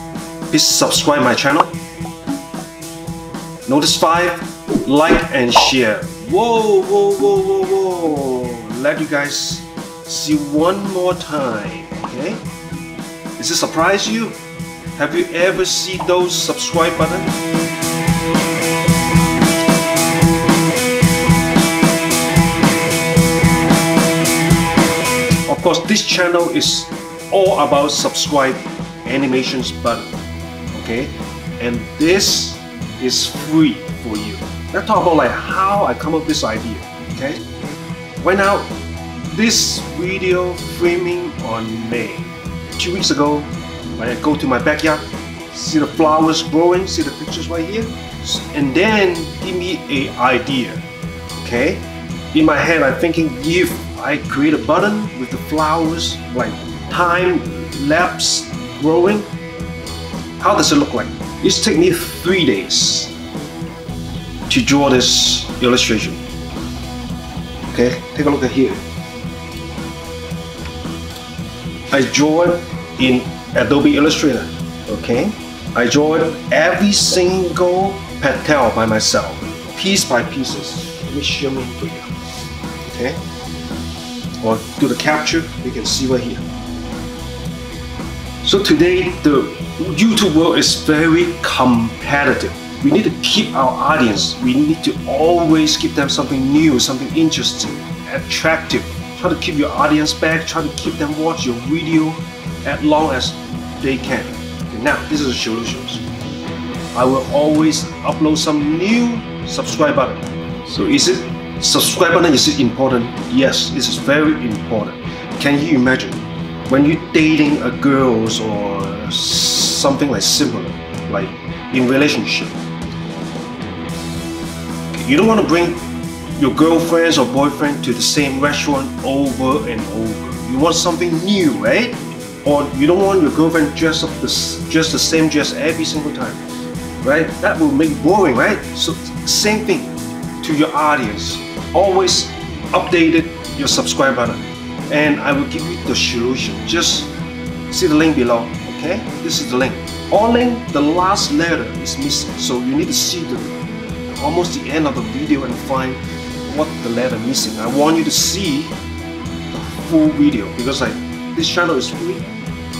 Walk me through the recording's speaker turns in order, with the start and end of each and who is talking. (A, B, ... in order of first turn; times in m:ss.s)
0:00.5-0:01.8 A
0:03.7-0:12.4 A
0:13.4-0:14.4 A
0:15.0-0:17.4 A
0:25.5-0:30.2 A
0:30.7-0:37.4 A
0:38.2-0:38.7 A
0:39.2-0:50.9 A
0:51.4-0:59.3 A
1:00.4-1:03.2 A
1:04.5-1:06.2 A
1:07.7-1:08.8 A
1:11.9-1:22.1 A
1:22.8-1:23.2 A
1:24.4-1:26.4 A
1:28.4-1:46.0 A
1:46.9-2:02.6 A
2:04.9-2:05.8 A
2:06.4-2:16.4 A
2:17.0-2:27.1 A
2:27.7-2:38.8 A
2:39.5-2:42.3 A